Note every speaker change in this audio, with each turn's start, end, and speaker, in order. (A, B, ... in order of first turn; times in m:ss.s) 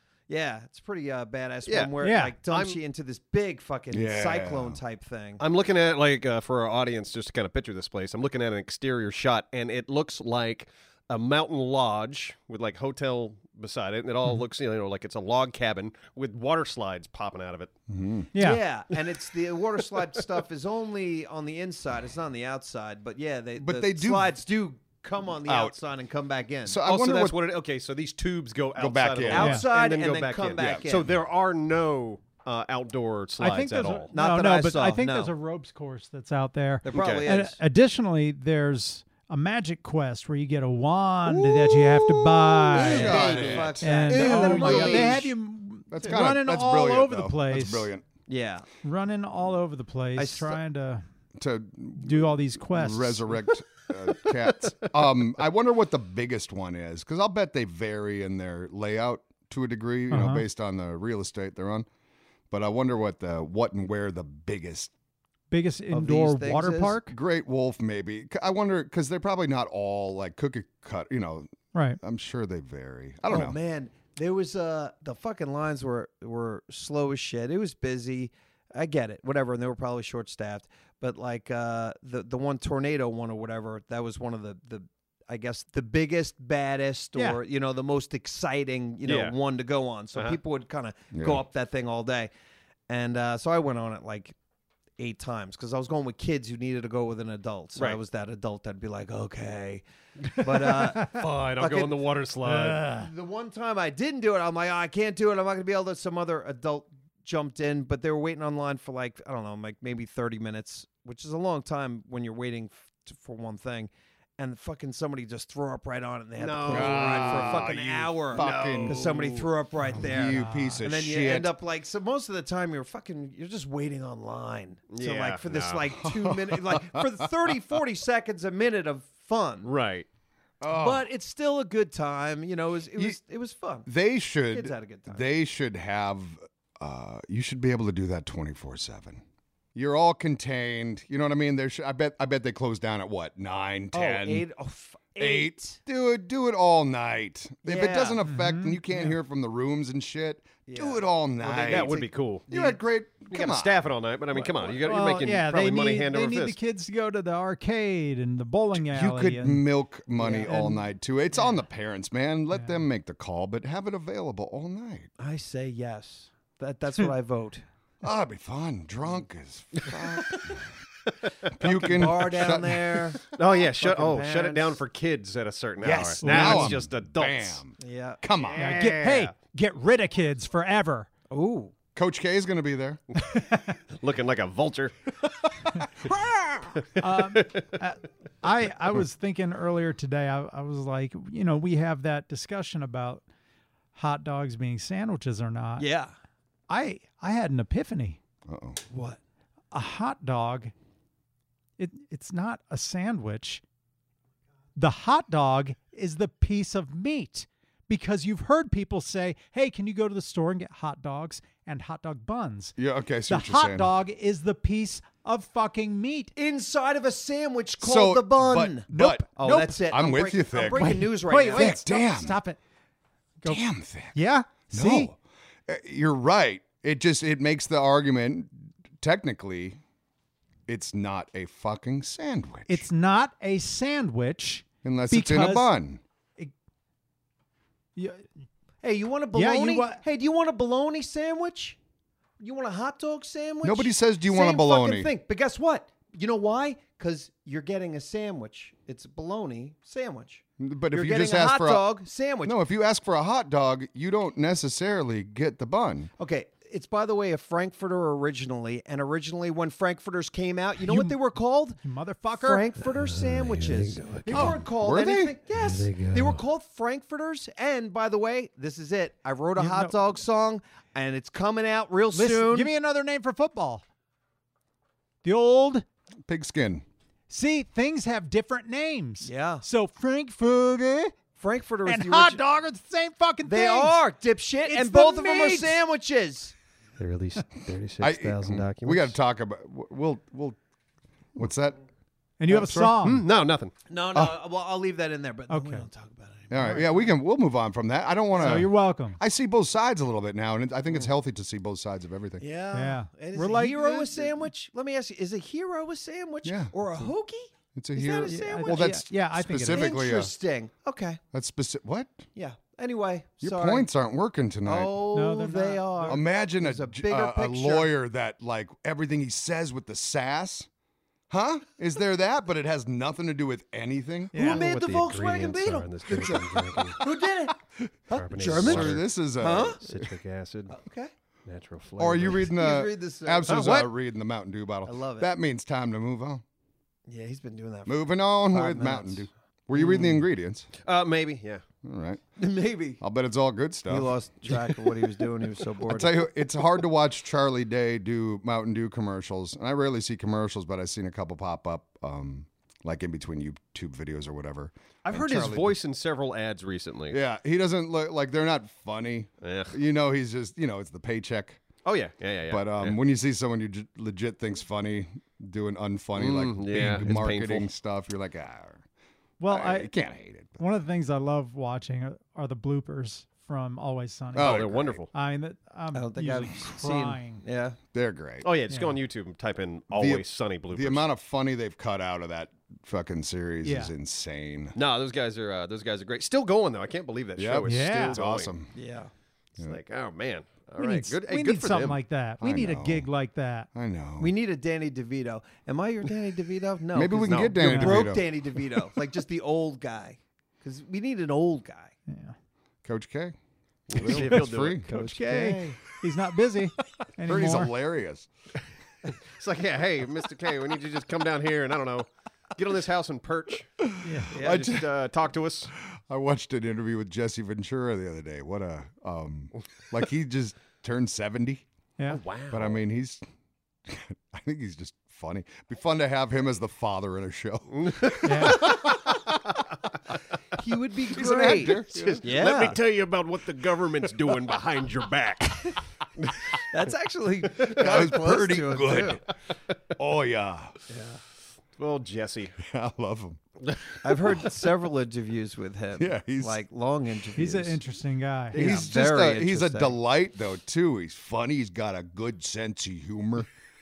0:00.3-0:05.4 A
0:01.6-0:02.8 B
0:02.0-0:02.3 C
0:03.9-0:04.8 D
0:05.4-0:17.7 B
0:17.9-0:18.3 D
0:18.3-0:18.6 C
0:18.3-0:26.8 A
0:23.6-0:24.3 D
0:25.4-0:25.8 D
0:26.6-0:27.4 D
0:26.8-0:34.1 B
0:28.8-0:29.6 D
0:29.3-0:31.1 A
0:29.4-0:29.7 C
0:30.6-0:30.9 D
0:33.4-0:47.9 C
0:34.1-0:35.3 A
0:36.8-0:37.6 A
0:36.9-0:37.3 B
0:41.2-0:45.3 D
0:42.7-0:45.3 A
0:42.9-0:44.9 B
0:45.9-0:48.0 D
0:48.3-0:48.6 A
0:48.8-0:51.0 C
0:50.2-0:50.6 A
0:51.4-1:01.8 D
0:52.0-0:53.4 C
1:00.1-1:00.4 C
1:02.5-1:04.9 D
1:05.5-1:07.2 C
1:05.9-1:07.0 A
1:07.1-1:13.6 D
1:11.7-1:12.0 C
1:13.3-1:32.3 A
1:29.0-1:29.3 B
1:31.1-1:31.4 D
1:32.9-1:34.3 A
1:35.0-1:42.0 A
1:40.9-1:42.9 B
1:42.4-1:43.1 C
1:42.9-2:09.7 A
1:56.4-1:57.8 B
1:56.7-1:59.4 D
1:58.3-1:59.4 B
1:59.9-2:00.8 C
1:59.9-2:01.5 D
2:04.9-2:05.9 B
2:06.0-2:07.2 D
2:09.6-2:10.1 B
2:10.6-2:11.0 D
2:10.7-2:13.9 A
2:13.8-2:19.2 D
2:14.5-2:15.2 A
2:19.7-2:24.5 D
2:23.9-2:25.8 A
2:25.2-2:32.0 D
2:27.6-2:28.2 A
2:28.2-2:29.2 C
2:30.6-2:32.8 A
2:31.6-2:32.4 B
2:32.5-2:33.8 D
2:33.3-2:36.6 B
2:34.8-2:39.6 C
2:38.7-2:45.1 D
2:40.2-2:40.5 A
2:40.3-2:40.8 C
2:42.5-2:42.8 C
2:45.2-2:47.6 A
2:48.0-2:50.7 D
2:51.5-2:53.2 D
2:51.6-2:54.8 A
2:53.3-2:57.6 B
2:55.9-2:58.8 D
2:56.2-2:56.8 C
2:57.8-2:58.2 A
2:58.4-2:59.3 B
2:58.6-3:01.1 C
3:01.3-3:01.7 A
3:01.9-3:03.0 D
3:03.2-3:03.8 C
3:03.9-3:05.6 B
3:06.7-3:07.6 B
3:07.0-3:13.2 C
3:13.9-3:15.9 C
3:15.8-3:16.1 A
3:16.7-3:18.2 C
3:18.5-3:18.8 D
3:18.9-3:19.2 A
3:19.7-3:20.7 C
3:21.8-3:23.6 C
3:24.8-3:32.8 C
3:32.8-3:33.9 D
3:33.3-3:36.3 C
3:36.3-3:41.8 A
3:37.8-3:39.3 D
3:38.9-3:39.8 C
3:39.8-3:42.4 D
3:40.7-3:42.6 C
3:43.4-3:44.2 D
3:44.1-3:45.1 C
3:44.7-3:49.8 D
3:50.7-3:52.9 D
3:52.7-3:55.7 C
3:54.8-3:56.0 D
3:58.0-3:58.2 C
3:58.8-4:01.8 A
3:59.3-4:00.0 C
4:02.4-4:12.6 A
4:03.6-4:05.1 D
4:10.6-4:16.1 D
4:16.2-4:21.8 A
4:20.8-4:21.1 C
4:21.8-4:22.7 C
4:22.3-4:32.7 A
4:22.9-4:24.6 B
4:24.3-4:25.3 D
4:25.5-4:26.4 B
4:29.6-4:29.9 C
4:32.1-4:33.8 C
4:35.2-4:35.8 C
4:36.2-4:36.8 D
4:37.3-4:41.1 C
4:39.2-4:39.6 A
4:41.4-4:42.4 A
4:41.8-4:44.0 C
4:43.4-4:46.5 A
4:44.6-4:45.8 C
4:47.0-4:49.1 B
4:48.0-4:50.6 D
4:51.3-4:51.8 D
4:52.4-4:53.2 C
4:52.5-4:53.0 D
4:53.0-4:53.7 B
4:53.9-4:57.0 A
4:55.5-4:55.8 C
4:56.5-5:02.4 D
4:56.6-4:56.9 C
4:58.3-4:59.2 C
5:02.4-5:09.0 A
5:02.7-5:04.4 C
5:06.4-5:06.7 D
5:07.7-5:10.3 D
5:08.2-5:09.9 C
5:09.7-5:11.2 A
5:11.3-5:12.2 D
5:12.3-5:13.9 A
5:13.4-5:15.0 D
5:14.6-5:17.9 A
5:15.1-5:16.2 C
5:16.0-5:20.7 D
5:21.3-5:24.4 D
5:24.3-5:24.6 C
5:24.4-5:25.9 A
5:24.4-5:27.0 B
5:26.1-5:27.1 D
5:27.0-5:27.6 A
5:27.8-5:30.1 D
5:28.1-5:29.8 A
5:28.1-5:29.0 B
5:29.8-5:30.8 B
5:30.7-5:31.1 A
5:31.4-5:32.5 B
5:32.0-5:36.4 D
5:32.4-5:33.8 A
5:33.5-5:33.9 B
5:34.8-5:35.3 A
5:37.1-5:40.2 A
5:37.8-5:40.7 D
5:40.8-5:41.6 B
5:41.8-5:42.2 D
5:42.4-5:43.0 A
5:43.0-5:45.0 D
5:43.9-5:46.3 A
5:45.8-5:55.7 D
5:55.0-5:57.2 B
5:57.1-6:01.6 D
5:59.4-5:59.7 B
6:01.8-6:03.0 B
6:02.5-6:08.8 D
6:06.2-6:07.6 B
6:09.4-6:09.9 C
6:09.5-6:10.6 D
6:10.6-6:17.4 C
6:14.3-6:15.0 D
6:14.3-6:15.1 B
6:15.9-6:17.8 A
6:17.9-6:18.5 D
6:18.4-6:21.0 B
6:18.7-6:19.0 C
6:19.9-6:24.8 D
6:23.6-6:23.9 C
6:24.7-6:28.5 B
6:27.4-6:28.7 D
6:27.6-6:28.2 C
6:28.7-6:29.1 A
6:29.6-6:32.0 B
6:30.8-6:33.7 C
6:32.4-6:33.1 D
6:33.7-6:34.3 D
6:34.2-6:41.9 A
6:36.9-6:38.3 D
6:37.2-6:37.6 B
6:37.6-6:38.1 C
6:42.1-6:42.3 C
6:42.8-6:43.4 D
6:43.9-6:44.9 D
6:43.9-6:45.2 B
6:44.0-6:47.7 C
6:44.9-6:45.7 A
6:47.2-6:48.3 D
6:49.1-6:55.7 B
6:53.8-6:54.9 D
6:54.0-6:54.4 C
6:54.3-6:54.6 A
6:55.7-7:01.6 D
7:02.1-7:02.8 B
7:02.5-7:03.2 D
7:03.8-7:08.7 D
7:07.7-7:09.3 B
7:08.2-7:08.7 C
7:10.5-7:12.8 A
7:11.1-7:12.7 D
7:11.7-7:16.3 B
7:16.7-7:19.2 A
7:17.6-7:19.2 D
7:20.0-7:20.8 D
7:20.9-7:21.2 A
7:21.8-7:22.6 B
7:22.6-7:23.4 D
7:24.0-7:27.8 A
7:26.0-7:26.6 D
7:27.4-7:28.7 C
7:28.5-7:30.0 A
7:28.5-7:33.5 D